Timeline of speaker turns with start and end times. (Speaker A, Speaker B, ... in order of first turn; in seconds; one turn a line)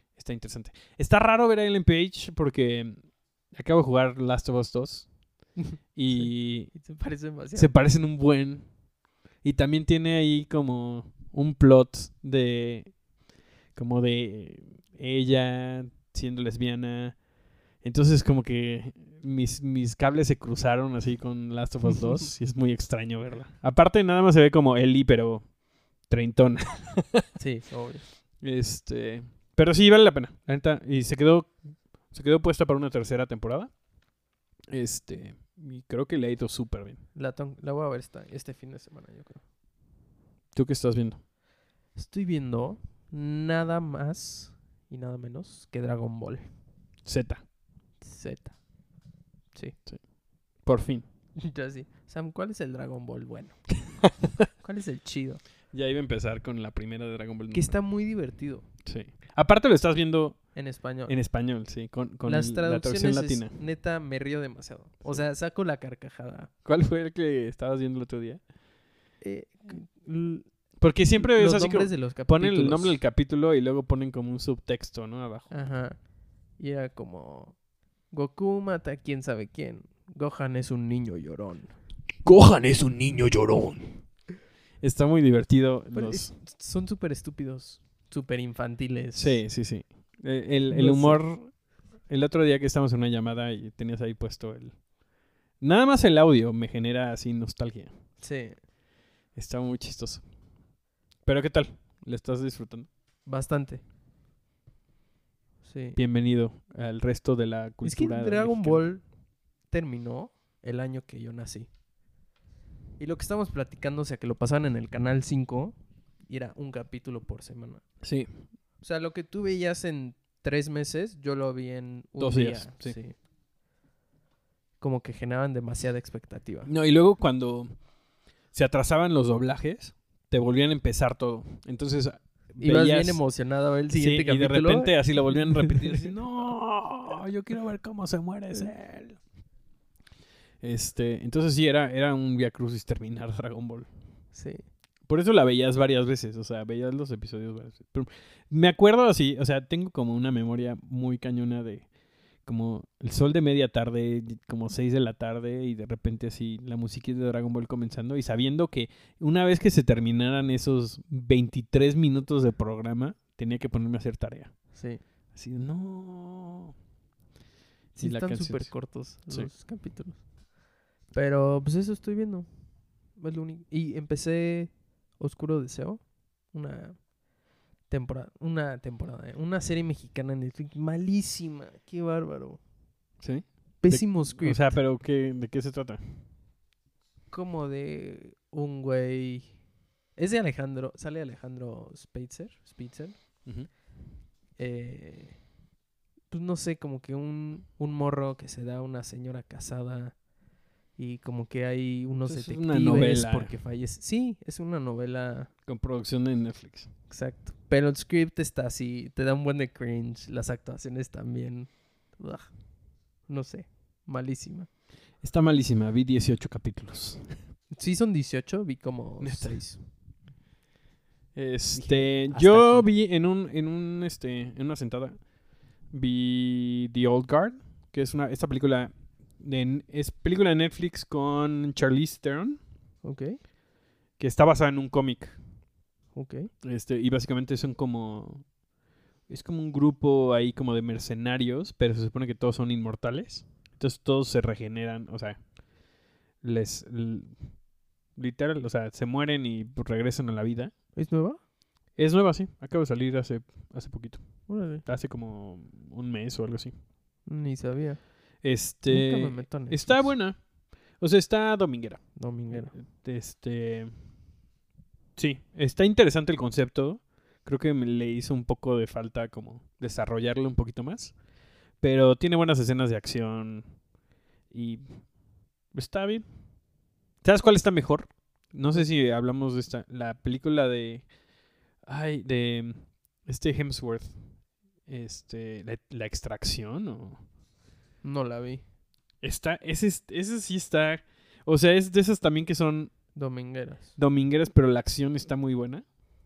Speaker A: 0.1-27.3
Speaker B: 5.6-7.7
Speaker B: 27.4-28.1
Speaker A: 28.4-37.0
Speaker B: 37.1-39.5
Speaker A: 40.5-41.2
Speaker B: 41.9-46.6
Speaker A: 47.0-47.4
Speaker B: 48.0-49.8
Speaker A: 49.8-51.0
Speaker B: 51.4-55.4
Speaker A: 55.7-57.9
Speaker B: 57.5-58.7
Speaker A: 58.8-63.6
Speaker B: 60.5-61.3
Speaker B: 62.2-66.5
Speaker A: 66.6-68.8
Speaker B: 69.2-73.0
Speaker A: 70.7-75.8
Speaker B: 75.5-81.9
Speaker A: 82.2-86.3
Speaker B: 85.9-89.5
Speaker A: 89.1-98.2
Speaker B: 90.7-91.3
Speaker B: 98.2-98.6
Speaker A: 99.3-102.9
Speaker B: 103.2-103.8
Speaker B: 105.6-106.0
Speaker A: 105.9-108.9
Speaker B: 107.8-111.8
Speaker B: 113.0-123.2
Speaker A: 118.0-118.5
Speaker A: 122.2-123.0
Speaker B: 124.8-126.7
Speaker A: 126.7-139.3
Speaker B: 132.6-136.1
Speaker A: 140.6-144.3
Speaker B: 144.3-144.7
Speaker A: 145.0-166.7
Speaker B: 164.7-165.0
Speaker B: 167.9-182.7
Speaker A: 168.0-169.5
Speaker A: 183.2-186.3
Speaker B: 183.8-184.8
Speaker B: 187.3-193.8
Speaker A: 193.4-193.7
Speaker B: 194.6-195.6
Speaker B: 196.3-200.3
Speaker B: 200.9-205.5
Speaker A: 202.2-203.6
Speaker A: 205.7-206.9
Speaker B: 207.1-214.7
Speaker A: 215.2-217.5
Speaker B: 217.7-219.8
Speaker A: 219.2-219.9
Speaker A: 221.3-232.6
Speaker B: 221.7-222.9
Speaker B: 233.0-233.4
Speaker A: 234.2-235.6
Speaker B: 236.1-236.5
Speaker A: 236.6-238.6
Speaker A: 239.3-250.8
Speaker B: 250.9-251.4
Speaker A: 251.9-256.8
Speaker B: 254.5-254.8
Speaker B: 257.2-260.2
Speaker A: 258.4-264.4
Speaker B: 262.1-262.7
Speaker A: 265.1-273.8
Speaker A: 274.5-287.3
Speaker B: 288.0-288.6
Speaker A: 289.2-293.3
Speaker B: 293.1-293.9
Speaker A: 293.9-295.9